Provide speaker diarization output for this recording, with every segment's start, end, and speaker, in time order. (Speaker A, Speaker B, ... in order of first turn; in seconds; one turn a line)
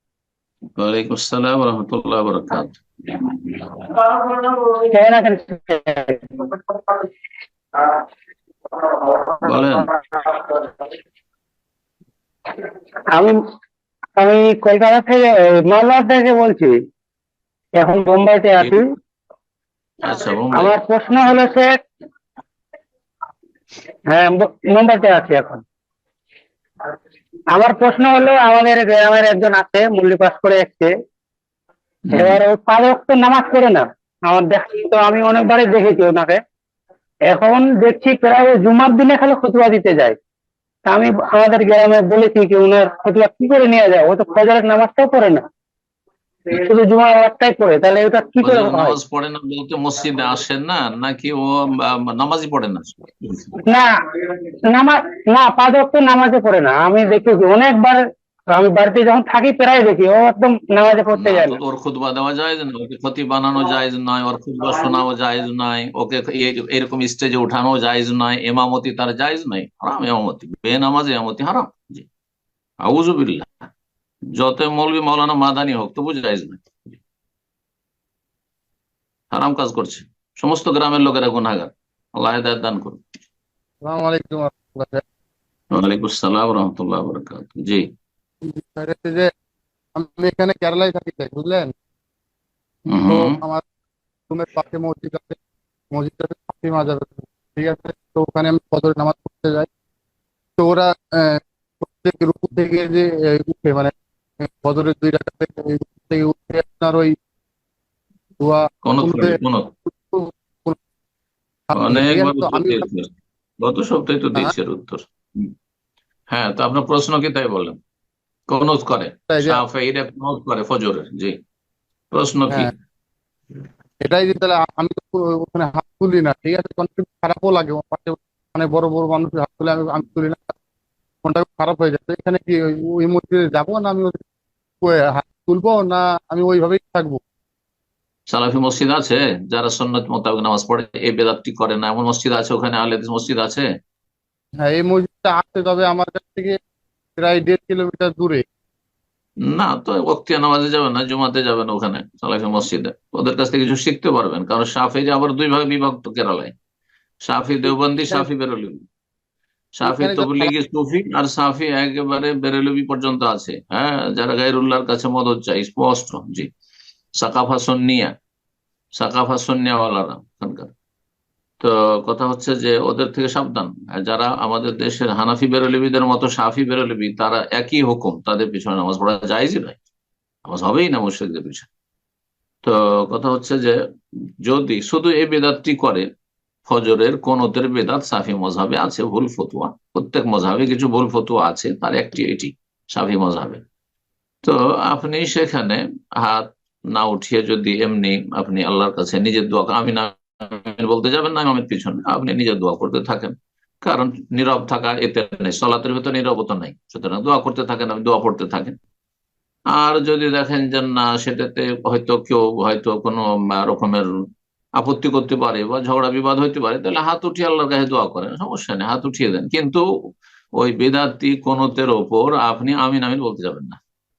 Speaker A: 0.8-2.8
Speaker B: 3.9-6.2
Speaker B: 8.9-10.7
Speaker A: 9.4-9.9
Speaker B: 14.2-16.8
Speaker B: 17.8-18.8
Speaker A: 20.1-20.8
Speaker B: 20.5-21.8
Speaker B: 24.1-25.6
Speaker B: 27.5-30.9
Speaker A: 32.1-32.4
Speaker B: 32.1-36.4
Speaker B: 37.3-40.2
Speaker B: 40.9-45.4
Speaker B: 46.5-49.0
Speaker A: 48.4-53.6
Speaker B: 54.7-58.0
Speaker B: 58.5-61.6
Speaker A: 61.1-72.1
Speaker A: 72.8-73.7
Speaker A: 74.3-77.0
Speaker A: 79.3-83.0
Speaker C: 83.9-85.0
Speaker A: 85.7-87.9
Speaker C: 88.5-89.3
Speaker C: 90.0-91.7
Speaker A: 92.9-93.4
Speaker C: 93.1-93.6
Speaker C: 94.3-95.4
Speaker C: 95.9-99.7
Speaker C: 100.6-107.1
Speaker C: 108.4-110.8
Speaker A: 108.8-109.7
Speaker C: 111.7-112.9
Speaker A: 111.8-115.5
Speaker A: 116.3-117.8
Speaker A: 118.5-121.4
Speaker C: 119.3-119.6
Speaker A: 122.1-122.7
Speaker C: 124.0-130.5
Speaker C: 131.2-134.2
Speaker C: 134.8-137.2
Speaker A: 138.3-143.7
Speaker C: 144.6-146.6
Speaker C: 147.2-148.4
Speaker A: 149.5-156.5
Speaker A: 157.2-158.8
Speaker A: 159.8-166.5
Speaker C: 159.8-160.5
Speaker A: 167.2-168.1
Speaker A: 169.0-170.7
Speaker A: 171.6-179.8
Speaker A: 180.5-181.7
Speaker A: 182.6-183.8
Speaker A: 184.4-186.1
Speaker A: 186.7-193.6
Speaker A: 194.4-208.8
Speaker A: 209.7-214.1
Speaker A: 214.8-219.8
Speaker A: 220.6-223.8